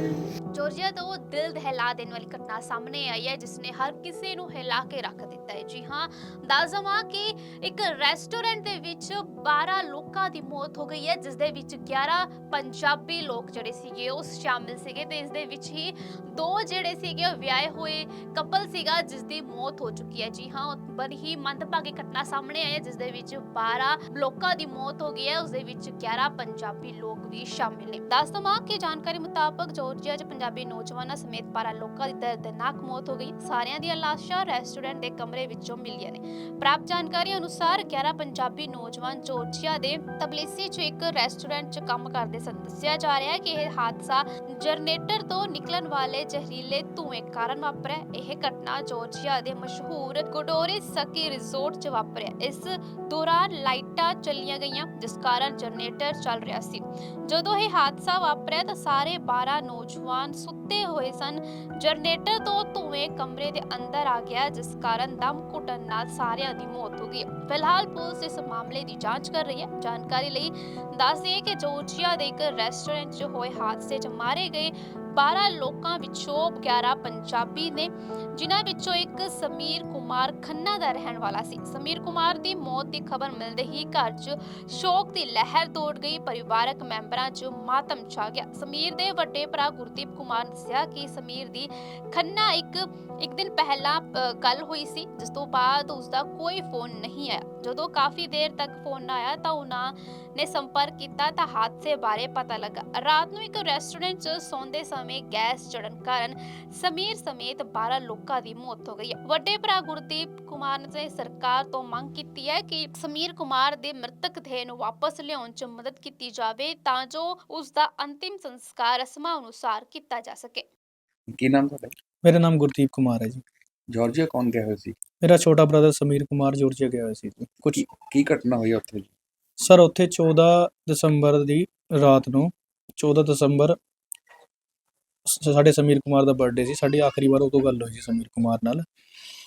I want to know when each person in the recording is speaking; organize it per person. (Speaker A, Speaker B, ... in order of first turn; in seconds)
Speaker A: 0.5-120.7
Speaker B: 121.3-121.9, 123.9-124.9, 127.7-129.1
Speaker C: 122.3-123.4, 125.3-127.8, 129.7-132.5, 133.0-133.7, 135.3-138.8